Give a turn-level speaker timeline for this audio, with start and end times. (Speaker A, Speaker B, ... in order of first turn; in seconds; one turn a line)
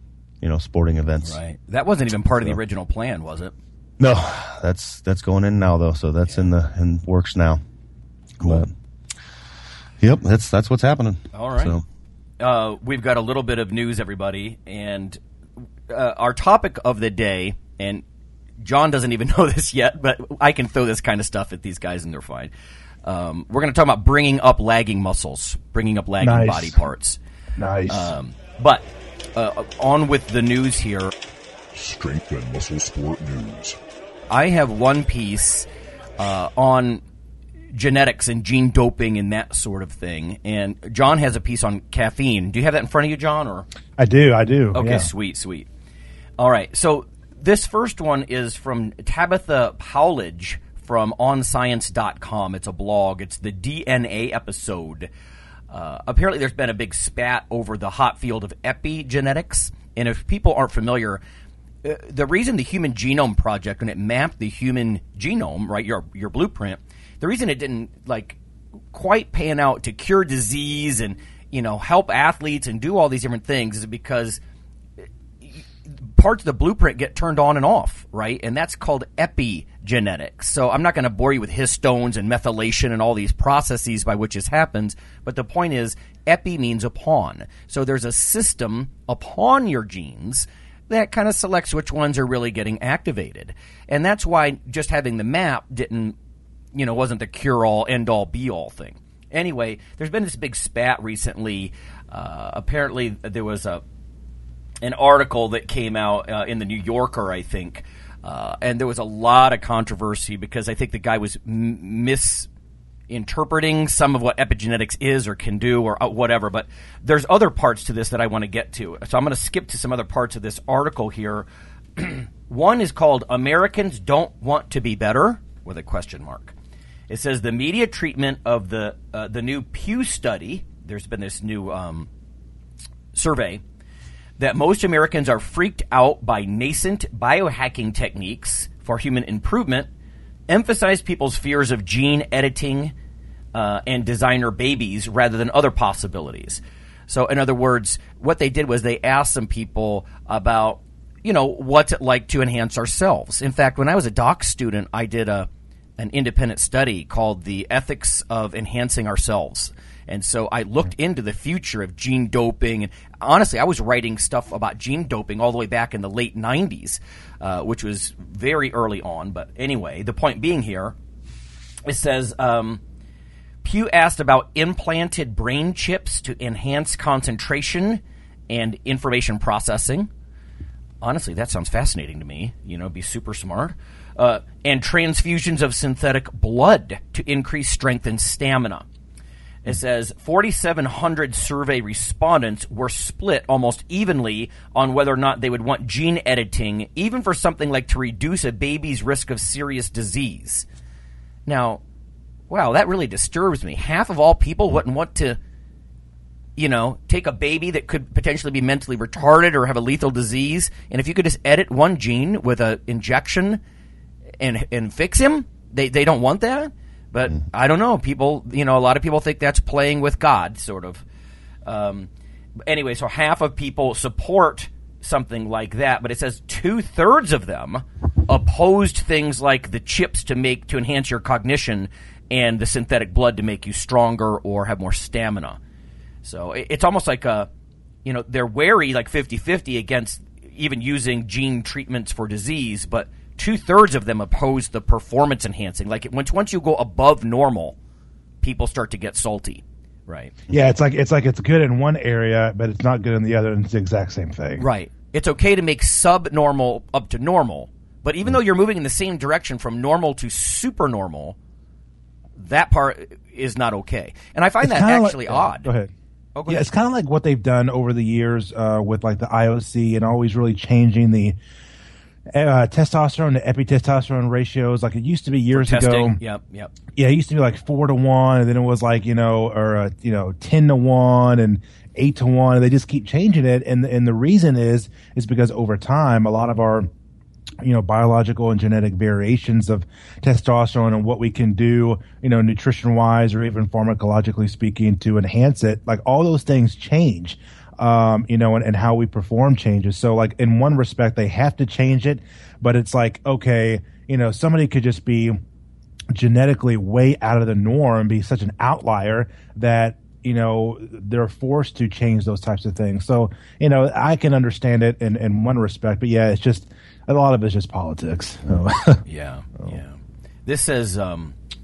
Speaker A: 0.4-1.4
Speaker B: 1.2-3.5
Speaker A: 4.0-7.6
Speaker A: 8.4-8.7
Speaker A: 10.0-11.8
Speaker B: 11.3-11.7
Speaker B: 12.4-15.2
Speaker B: 15.9-18.0
Speaker B: 18.6-22.5
Speaker B: 23.0-27.2
Speaker C: 26.2-26.8
Speaker C: 27.6-28.1
Speaker B: 27.9-31.1
Speaker D: 31.7-33.8
Speaker B: 34.3-37.0
Speaker B: 37.7-43.7
Speaker C: 44.0-45.1
Speaker B: 44.7-45.7
Speaker B: 46.4-55.1
Speaker B: 55.7-61.2
Speaker B: 61.8-68.4
Speaker B: 68.9-74.4
Speaker B: 76.1-96.2
Speaker B: 96.7-103.8
Speaker B: 104.8-112.5
Speaker B: 113.1-126.5
Speaker B: 127.1-132.1
Speaker B: 133.1-133.6
Speaker B: 134.4-139.9
Speaker B: 140.5-142.9
Speaker B: 143.5-170.9
Speaker B: 171.8-172.8
Speaker B: 173.6-180.1
Speaker B: 181.0-188.8
Speaker B: 189.6-200.7
Speaker B: 201.4-201.8
Speaker B: 202.5-205.4
Speaker B: 206.6-213.6
Speaker B: 214.4-221.0
Speaker B: 221.6-222.1
Speaker B: 222.6-235.6
Speaker B: 236.2-237.5
Speaker B: 238.0-247.8
Speaker B: 248.4-250.3
Speaker C: 250.5-254.7
Speaker B: 254.6-261.4
Speaker B: 262.4-265.7
Speaker C: 264.6-265.9
Speaker B: 266.4-266.7
Speaker C: 266.5-271.4
Speaker C: 272.3-276.2
Speaker B: 275.5-276.7
Speaker C: 276.9-286.9
Speaker C: 287.6-305.4
Speaker C: 306.1-319.0
Speaker B: 319.1-321.4